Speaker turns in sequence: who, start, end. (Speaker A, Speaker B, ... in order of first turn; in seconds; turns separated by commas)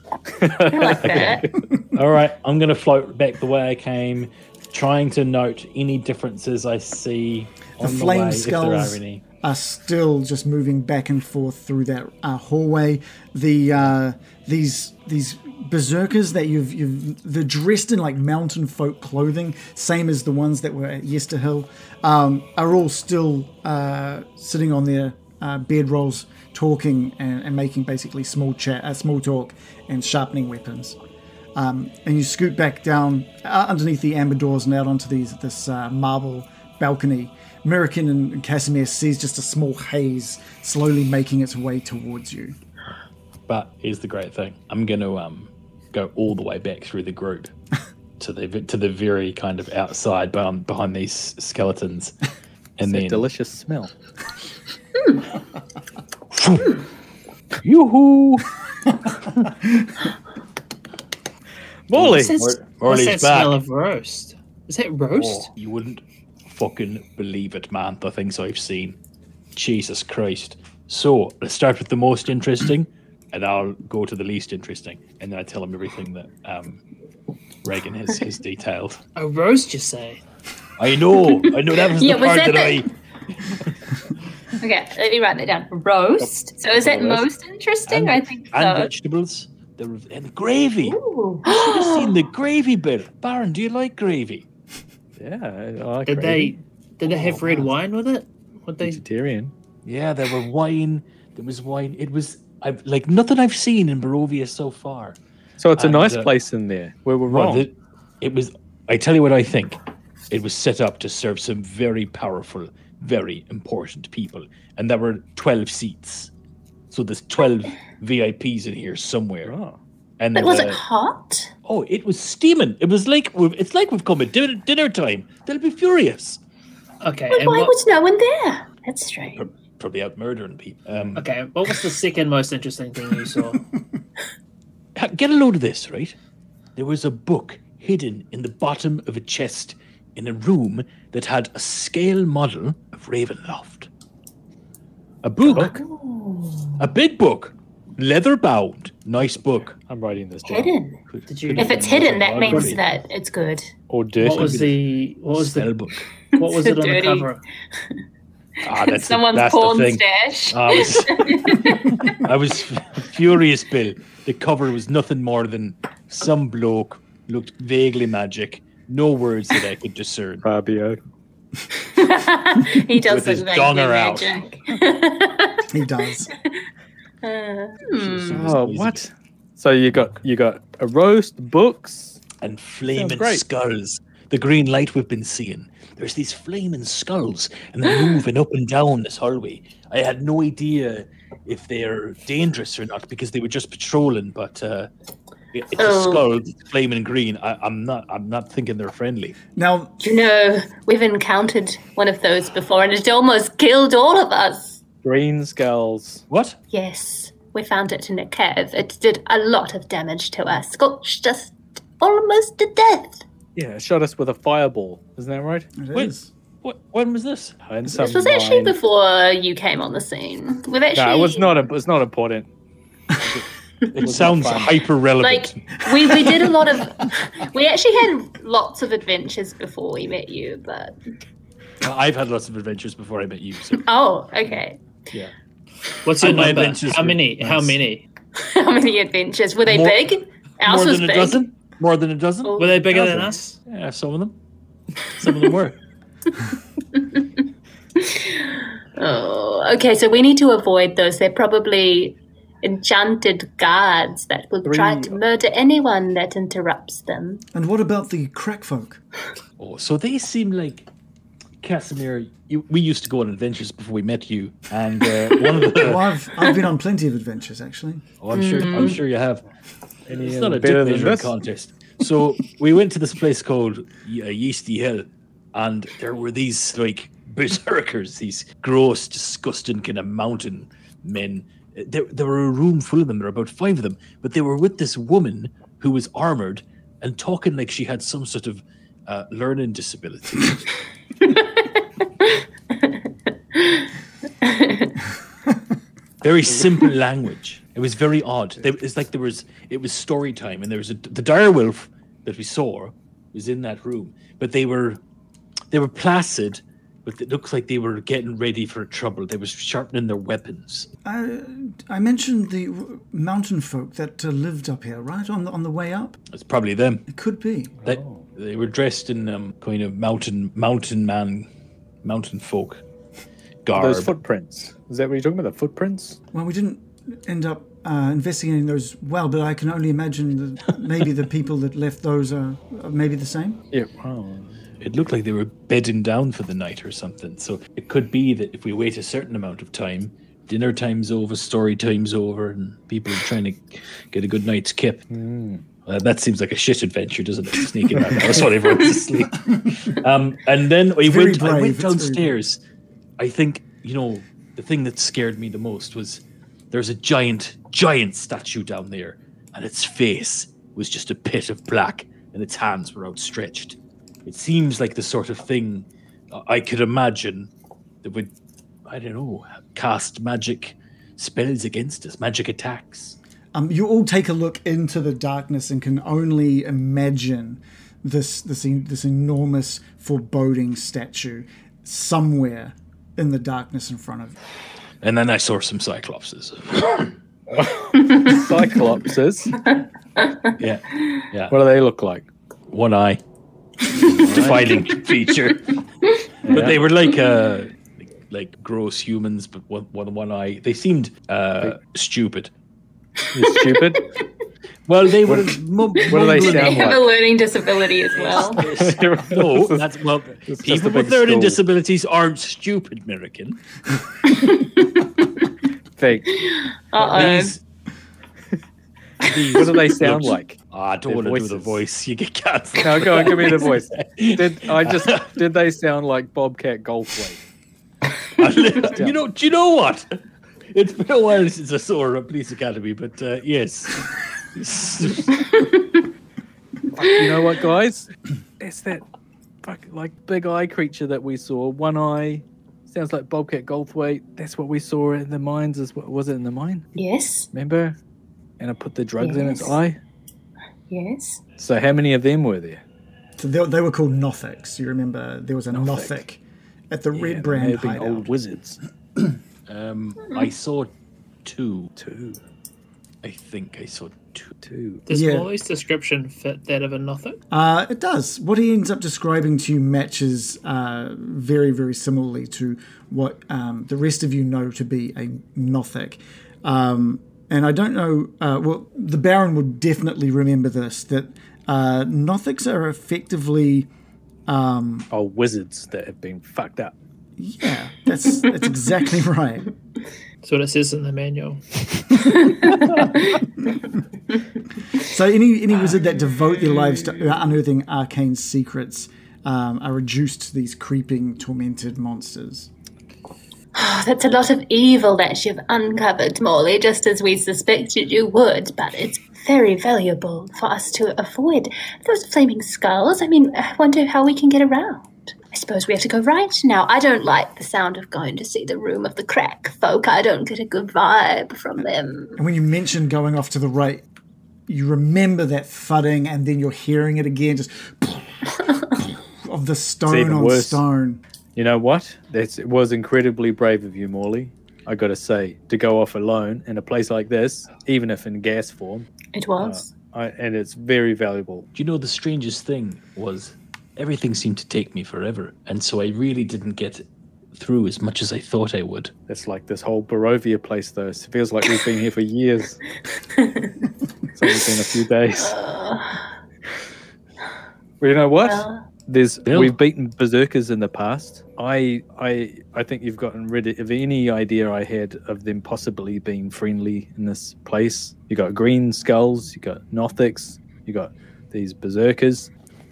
Speaker A: 0.3-1.5, Speaker B: 0.7-1.4, Speaker C: 1.0-9.2, Speaker D: 7.8-31.0, Speaker D: 31.6-42.6, Speaker C: 43.5-47.5, Speaker C: 48.2-52.1, Speaker C: 52.8-53.3, Speaker A: 52.8-53.9, Speaker C: 56.3-56.8, Speaker C: 57.6-58.5, Speaker A: 61.9-62.3, Speaker C: 61.9-63.6, Speaker E: 62.1-65.5, Speaker C: 65.1-69.0, Speaker C: 69.5-76.8, Speaker C: 77.6-79.0, Speaker E: 79.2-80.2, Speaker C: 80.8-82.9, Speaker B: 81.3-82.9, Speaker B: 84.6-88.9, Speaker C: 86.9-87.2, Speaker C: 87.9-94.5, Speaker B: 90.8-92.2, Speaker A: 95.2-96.6, Speaker E: 96.0-99.0, Speaker C: 97.1-97.4, Speaker A: 98.8-99.5, Speaker C: 99.8-105.2, Speaker A: 105.6-107.7, Speaker C: 105.8-106.3, Speaker C: 107.3-109.8, Speaker C: 110.3-116.3, Speaker C: 116.9-119.5, Speaker A: 119.5-119.8, Speaker C: 120.2-120.8, Speaker B: 120.3-121.5, Speaker C: 121.7-126.4, Speaker E: 127.0-127.7, Speaker B: 127.3-129.4, Speaker C: 129.4-131.3, Speaker E: 131.2-133.6, Speaker C: 135.0-136.2, Speaker C: 136.8-143.9, Speaker C: 145.2-145.8, Speaker B: 145.4-146.8, Speaker C: 146.8-149.8, Speaker A: 149.8-150.7, Speaker B: 150.4-151.0, Speaker C: 151.1-152.8, Speaker E: 151.3-152.8, Speaker B: 151.6-153.7, Speaker A: 153.9-154.7, Speaker E: 154.2-155.8, Speaker C: 154.2-154.7, Speaker C: 155.4-156.1, Speaker B: 156.3-157.3, Speaker E: 156.4-157.4, Speaker C: 158.6-170.4, Speaker B: 158.7-162.2, Speaker A: 170.4-171.0, Speaker B: 171.8-175.7, Speaker C: 173.1-174.4, Speaker D: 175.7-176.3, Speaker B: 177.2-178.4, Speaker C: 178.0-179.0, Speaker A: 178.3-182.2, Speaker C: 182.4-194.9, Speaker A: 182.9-183.4, Speaker C: 195.5-199.4, Speaker B: 195.8-196.2, Speaker D: 199.6-200.0, Speaker B: 200.0-204.8, Speaker A: 205.0-206.2, Speaker C: 206.3-206.6, Speaker B: 206.7-213.2, Speaker A: 213.6-215.7, Speaker D: 215.8-216.3, Speaker C: 216.6-217.6, Speaker A: 217.7-218.8, Speaker B: 217.9-221.6, Speaker A: 220.9-222.5, Speaker A: 223.2-223.5, Speaker C: 223.9-225.7, Speaker A: 224.0-224.8, Speaker B: 225.2-231.0, Speaker C: 231.8-233.9, Speaker B: 233.8-234.8, Speaker E: 236.1-238.0, Speaker C: 236.1-237.8, Speaker B: 238.4-241.4, Speaker C: 239.7-240.1, Speaker C: 240.6-244.4, Speaker B: 242.4-242.8, Speaker E: 242.6-243.6, Speaker C: 245.1-245.8, Speaker B: 246.9-247.2, Speaker B: 248.0-257.4, Speaker A: 254.7-255.2, Speaker D: 257.5-259.0, Speaker C: 259.6-260.9, Speaker C: 261.6-266.1, Speaker D: 265.8-268.1, Speaker C: 268.2-269.4, Speaker B: 268.3-269.0, Speaker A: 270.1-271.3, Speaker C: 270.1-290.6, Speaker B: 292.2-293.0, Speaker B: 293.6-293.9, Speaker B: 294.4-295.0, Speaker C: 296.2-305.0, Speaker C: 305.7-310.9, Speaker D: 311.1-316.2, Speaker C: 316.3-317.1, Speaker D: 317.1-317.8, Speaker A: 317.8-318.2, Speaker C: 317.9-321.5, Speaker C: 322.0-322.8, Speaker C: 323.6-324.1, Speaker A: 323.8-326.2, Speaker D: 326.3-333.6, Speaker A: 333.7-334.6, Speaker C: 334.8-345.1, Speaker A: 345.1-345.6, Speaker C: 345.9-352.6, Speaker D: 351.0-352.4, Speaker C: 353.2-367.5, Speaker C: 368.0-368.3, Speaker C: 368.9-373.2, Speaker D: 373.5-384.4, Speaker C: 385.0-387.1, Speaker A: 387.5-389.6, Speaker B: 388.0-388.3, Speaker B: 390.2-390.5, Speaker C: 390.6-391.6, Speaker A: 391.5-392.3, Speaker C: 392.7-393.2, Speaker C: 393.9-395.8, Speaker A: 394.0-394.7, Speaker A: 396.4-396.8, Speaker C: 396.5-402.5, Speaker A: 403.3-404.1, Speaker B: 403.4-404.1, Speaker C: 404.9-407.0, Speaker A: 405.3-407.1, Speaker B: 406.0-408.6, Speaker C: 408.2-413.6, Speaker A: 408.7-409.9, Speaker A: 410.5-411.6, Speaker B: 414.3-414.8, Speaker A: 416.0-416.3, Speaker B: 416.4-417.6, Speaker C: 417.0-417.6, Speaker C: 419.2-425.4, Speaker A: 419.5-421.8, Speaker A: 422.8-427.4, Speaker C: 428.4-430.1, Speaker C: 430.7-435.3, Speaker B: 435.4-436.0, Speaker A: 437.0-438.1, Speaker B: 437.1-437.5, Speaker A: 438.6-439.0, Speaker A: 439.6-446.9, Speaker B: 447.0-447.5, Speaker A: 447.5-448.0, Speaker A: 448.6-450.0, Speaker B: 449.2-449.8, Speaker B: 450.9-451.4, Speaker A: 451.6-452.8, Speaker D: 453.4-456.4, Speaker A: 455.7-456.2, Speaker D: 456.9-458.3, Speaker A: 457.1-458.8, Speaker C: 459.7-460.9, Speaker C: 461.4-461.9, Speaker A: 462.0-462.4, Speaker C: 463.2-464.5, Speaker A: 464.6-465.1, Speaker E: 465.1-467.4, Speaker D: 465.1-465.5, Speaker D: 467.5-483.9, Speaker D: 484.5-485.1, Speaker A: 485.1-486.9, Speaker D: 487.4-489.6, Speaker E: 490.4-491.6, Speaker B: 492.3-493.4, Speaker D: 495.0-502.7, Speaker B: 503.7-522.4, Speaker D: 522.4-524.0, Speaker D: 524.7-528.4, Speaker D: 528.9-531.2, Speaker A: 530.1-530.8, Speaker A: 531.6-539.1, Speaker B: 539.3-539.9, Speaker A: 539.6-541.7, Speaker C: 541.8-547.0, Speaker C: 547.5-549.1, Speaker A: 549.3-552.8, Speaker B: 553.4-553.7, Speaker A: 554.4-555.6, Speaker B: 555.4-556.2, Speaker A: 558.0-572.5, Speaker B: 558.4-558.8, Speaker C: 559.5-559.8